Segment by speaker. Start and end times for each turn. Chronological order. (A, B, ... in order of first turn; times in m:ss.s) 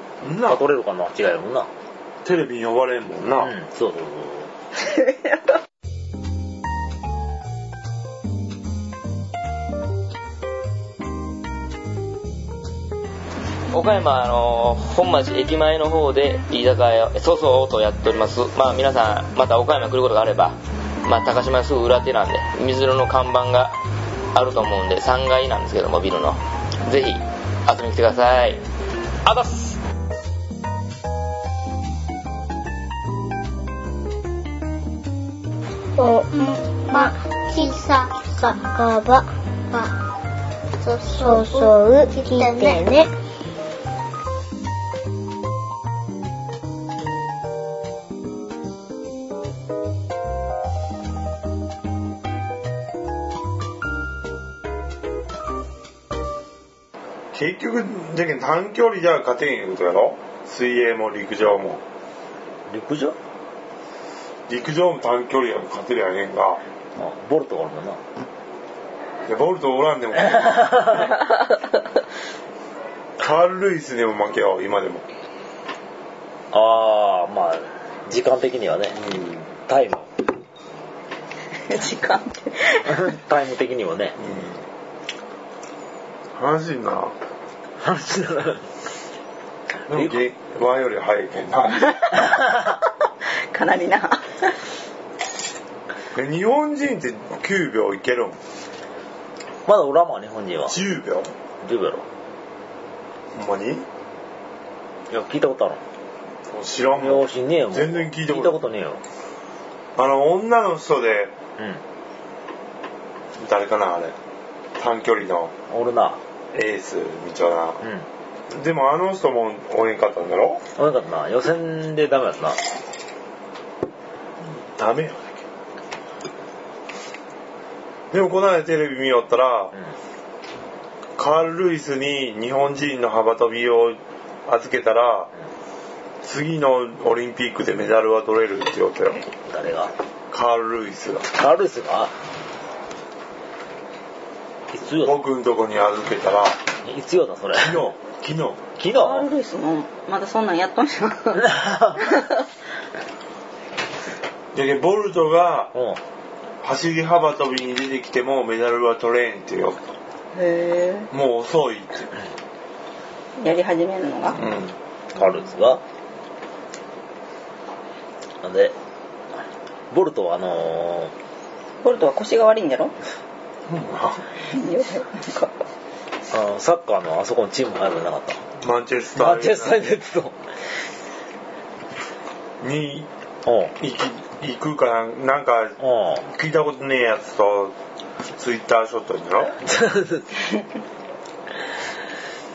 0:00.2-0:00.6 A
0:00.4-0:01.7 B
0:02.2-0:03.6 A
0:03.4-0:04.5 B
0:04.8-0:05.5 C
0:13.7-0:23.7 D
0:24.3-0:28.6 D
0:29.3-0:29.8 B
0:36.0-0:39.9 E
0:40.8-0:43.1 E
0:57.3-1:01.8 A
1:02.7-1:03.2 B
1:04.5-1:06.6 A
1:07.0-1:08.0 B
1:09.3-1:11.0 A
1:10.3-1:11.1 B
1:13.2-1:15.0 A
1:16.5-1:19.0 B
1:19.0-1:19.5 A
1:19.7-1:20.1 B
1:21.6-1:23.2 C
1:22.9-1:24.2 B
1:24.2-1:24.6 A
1:26.4-1:27.1 A
1:27.8-1:28.7 B
1:29.9-1:32.0 A
1:29.9-1:30.2 B
1:33.5-1:34.5 C
1:36.1-1:38.4 A
1:39.7-1:40.8 B
1:40.7-1:41.3 A
1:41.6-1:42.1 B
1:43.4-1:43.9 A
1:45.1-1:45.8 B
1:46.5-1:48.6 A
1:47.0-1:49.0 B
1:50.0-1:51.3 A
1:53.4-1:54.2 A
1:54.8-1:55.5 A
1:55.7-1:56.2 B
1:56.5-1:57.8 A
1:58.5-2:00.6 A
2:00.8-2:02.6 B
2:04.6-2:05.4 A
2:08.1-2:09.7 A
2:11.2-2:15.3 A
2:16.2-2:19.2 A
2:19.5-2:19.9 B
2:20.3-2:21.3 A
2:21.3-2:22.1 B
2:24.7-2:25.2 B
2:25.0-2:26.6 A
2:26.8-2:27.8 B
2:27.5-2:28.6 A
2:28.8-2:29.3 B
2:28.9-2:32.4 C
2:31.4-2:32.2 B
2:34.5-2:35.7 A
2:36.6-2:39.9 A
2:40.3-2:41.1 C
2:41.1-2:42.1 A
2:43.4-2:44.4 C
2:44.4-2:44.8 A
2:45.2-2:45.8 B
2:48.4-2:48.8 B
2:49.9-2:51.1 B
2:51.8-2:52.9 C
2:53.7-2:54.2 A
2:54.4-2:55.6 C
2:56.3-2:58.4 B
2:58.6-2:59.9 A
2:59.2-3:00.4 B
3:02.6-3:03.1 A
3:03.5-3:03.8 B
3:03.8-3:07.8 A
3:05.8-3:06.2 B
3:08.4-3:09.6 A
3:09.6-3:10.3 B